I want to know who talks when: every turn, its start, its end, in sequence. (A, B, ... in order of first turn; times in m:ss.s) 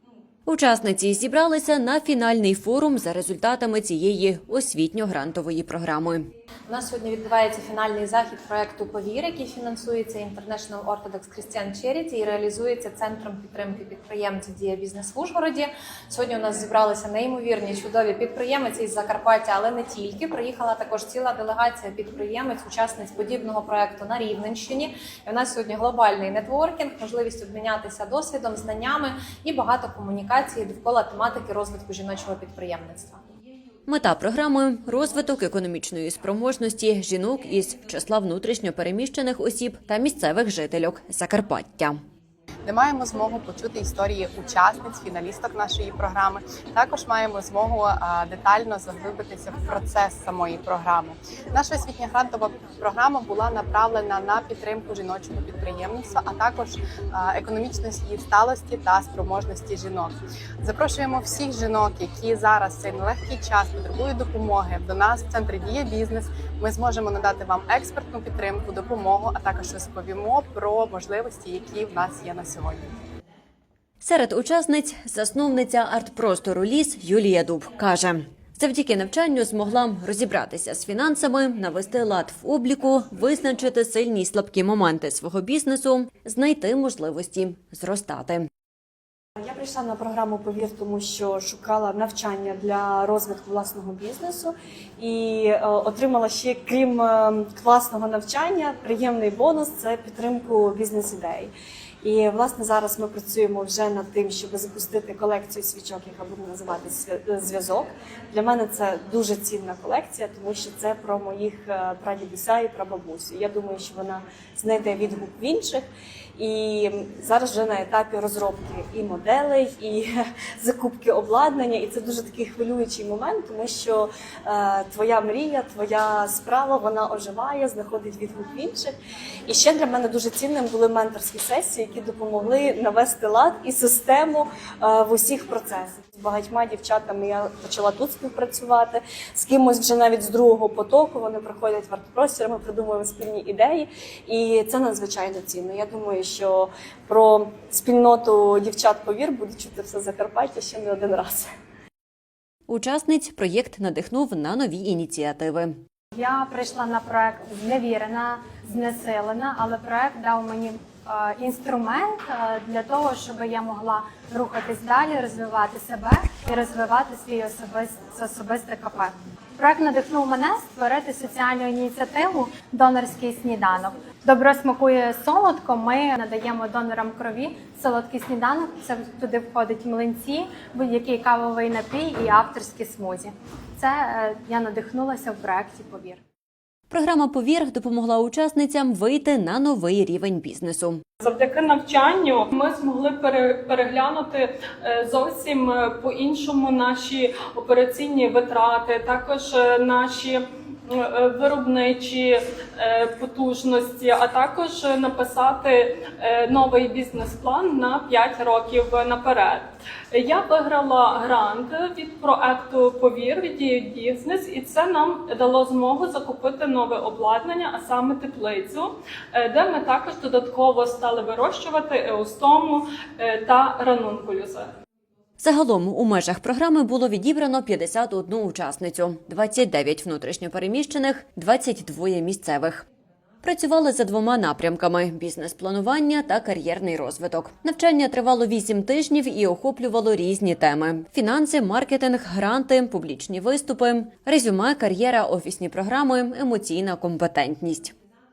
0:00.4-0:06.3 A
0:06.7-0:33.2 B
0:33.9-0:42.0 A
0:42.6-1:12.9 C
1:14.0-1:28.5 A
1:29.4-1:55.8 D
1:56.4-2:08.9 D
2:09.5-2:31.5 D
2:32.7-2:35.8 A
2:36.1-3:06.2 E
3:06.9-3:11.0 A
3:11.2-3:44.7 F
3:45.4-3:52.8 A
3:53.4-4:07.9 A